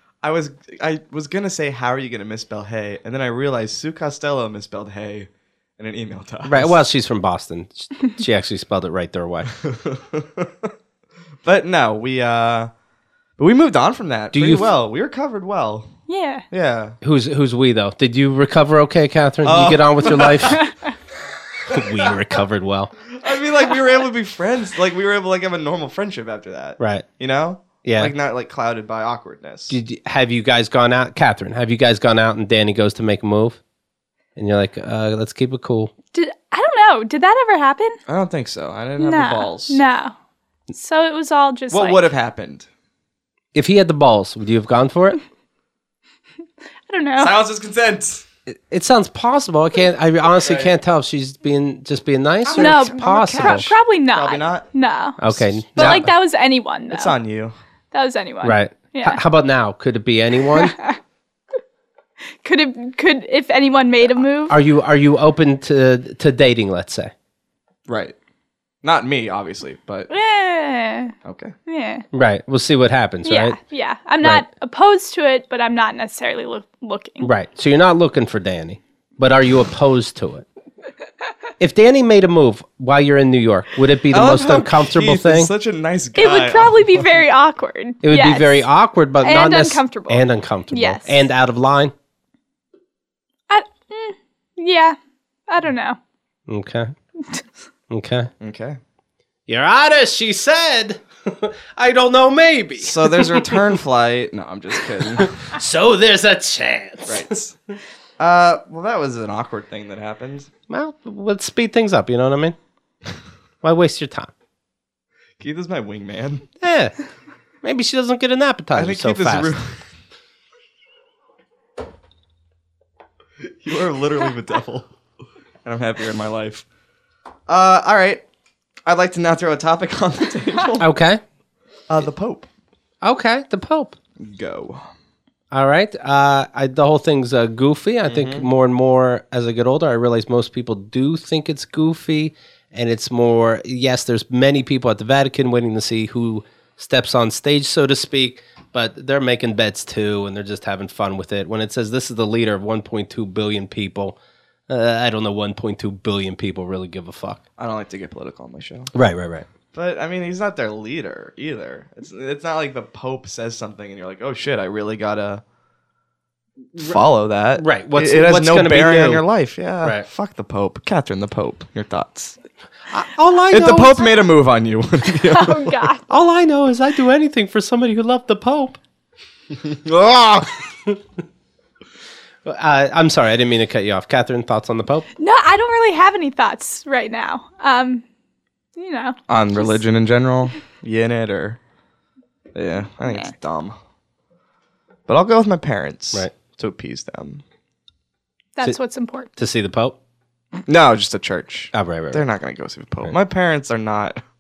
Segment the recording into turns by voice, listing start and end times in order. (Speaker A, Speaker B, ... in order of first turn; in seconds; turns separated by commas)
Speaker A: 0.2-6.8, Speaker B: 6.5-9.5, Speaker A: 9.6-10.7, Speaker A: 11.4-12.7, Speaker A: 13.4-15.9, Speaker B: 14.3-14.7, Speaker C: 16.1-16.5, Speaker A: 16.5-17.0, Speaker B: 17.0-20.6, Speaker A: 19.4-20.6, Speaker C: 20.5-20.9, Speaker B: 21.6-22.9, Speaker A: 21.7-22.2, Speaker A: 23.1-29.8, Speaker B: 26.8-27.1, Speaker B: 27.8-28.1, Speaker B: 29.7-33.6, Speaker B: 34.4-35.9, Speaker C: 36.1-38.0, Speaker A: 38.1-39.8, Speaker C: 39.0-40.1, Speaker C: 40.7-42.0, Speaker A: 41.7-42.7, Speaker B: 43.5-45.2, Speaker C: 46.9-47.4, Speaker A: 47.2-48.2, Speaker B: 48.5-53.7, Speaker A: 50.4-50.8, Speaker A: 52.5-54.7, Speaker C: 52.5-55.2, Speaker B: 55.2-56.1, Speaker A: 55.3-56.1, Speaker C: 55.8-57.2, Speaker A: 56.9-57.5, Speaker C: 57.9-59.2, Speaker B: 58.4-60.8, Speaker C: 60.5-61.0, Speaker C: 62.4-64.6, Speaker B: 64.5-67.1, Speaker A: 67.9-68.2, Speaker A: 68.8-70.1, Speaker C: 70.1-71.2, Speaker A: 71.2-71.5, Speaker C: 71.7-72.0, Speaker B: 72.1-73.6, Speaker C: 73.2-77.3, Speaker B: 77.2-80.5, Speaker B: 81.6-85.5, Speaker A: 84.1-87.2, Speaker C: 86.2-88.7, Speaker B: 88.0-91.9, Speaker C: 89.2-91.2, Speaker C: 93.5-95.0, Speaker C: 95.5-96.0, Speaker B: 96.5-96.9, Speaker B: 97.9-98.3, Speaker A: 98.4-98.8, Speaker B: 99.5-103.7, Speaker A: 102.8-105.4, Speaker B: 105.0-107.3, Speaker A: 107.1-107.5, Speaker A: 108.2-110.5, Speaker B: 110.7-112.6, Speaker B: 113.6-114.3, Speaker A: 115.4-116.5, Speaker B: 116.6-116.9, Speaker B: 117.6-119.5, Speaker A: 118.7-119.8, Speaker A: 123.4-124.9, Speaker A: 125.7-126.7, Speaker A: 127.5-128.2, Speaker A: 128.9-130.9, Speaker B: 130.8-131.2, Speaker A: 131.9-132.5, Speaker B: 133.0-134.0, Speaker A: 134.2-134.9, Speaker B: 135.5-154.2, Speaker A: 138.1-138.5, Speaker B: 154.7-157.4, Speaker A: 157.6-158.9, Speaker B: 158.9-159.5, Speaker A: 159.7-165.4, Speaker A: 166.8-172.4, Speaker B: 167.6-169.2, Speaker B: 172.9-174.1, Speaker A: 173.5-175.9, Speaker C: 175.2-176.0, Speaker B: 176.1-178.8, Speaker A: 179.5-180.6, Speaker B: 182.4-185.1, Speaker C: 185.2-188.0, Speaker C: 188.8-189.8, Speaker A: 189.3-191.6, Speaker A: 192.6-193.8, Speaker C: 193.1-193.3, Speaker A: 195.1-197.4, Speaker C: 198.6-199.3, Speaker B: 199.4-200.0, Speaker A: 200.7-204.2, Speaker B: 201.7-202.3